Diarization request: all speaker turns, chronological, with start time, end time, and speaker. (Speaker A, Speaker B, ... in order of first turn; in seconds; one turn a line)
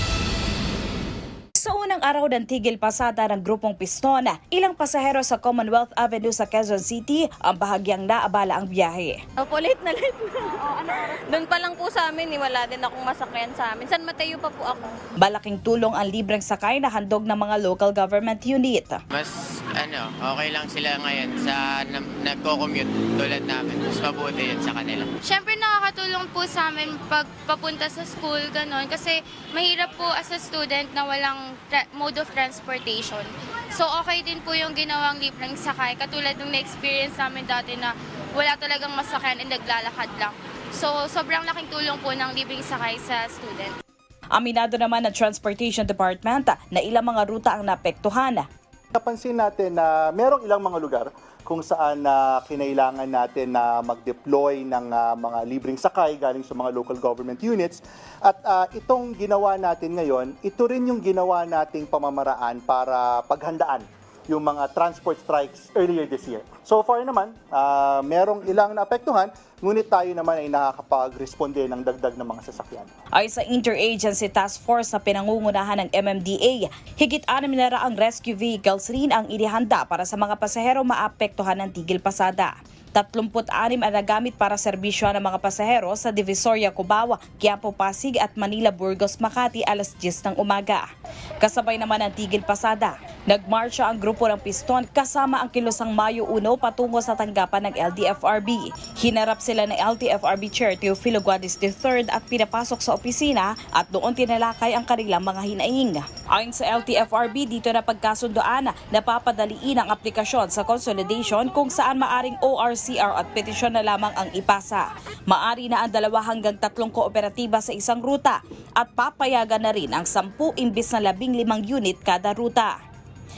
Speaker A: 1.6-9.2
Speaker B: 9.4-14.9
Speaker A: 15.2-19.0
Speaker C: 19.1-25.1
Speaker D: 25.2-43.7
Speaker A: 44.4-48.5
Speaker E: 48.9-72.9
Speaker A: 73.2-90.8
Speaker A: 91.4-122.7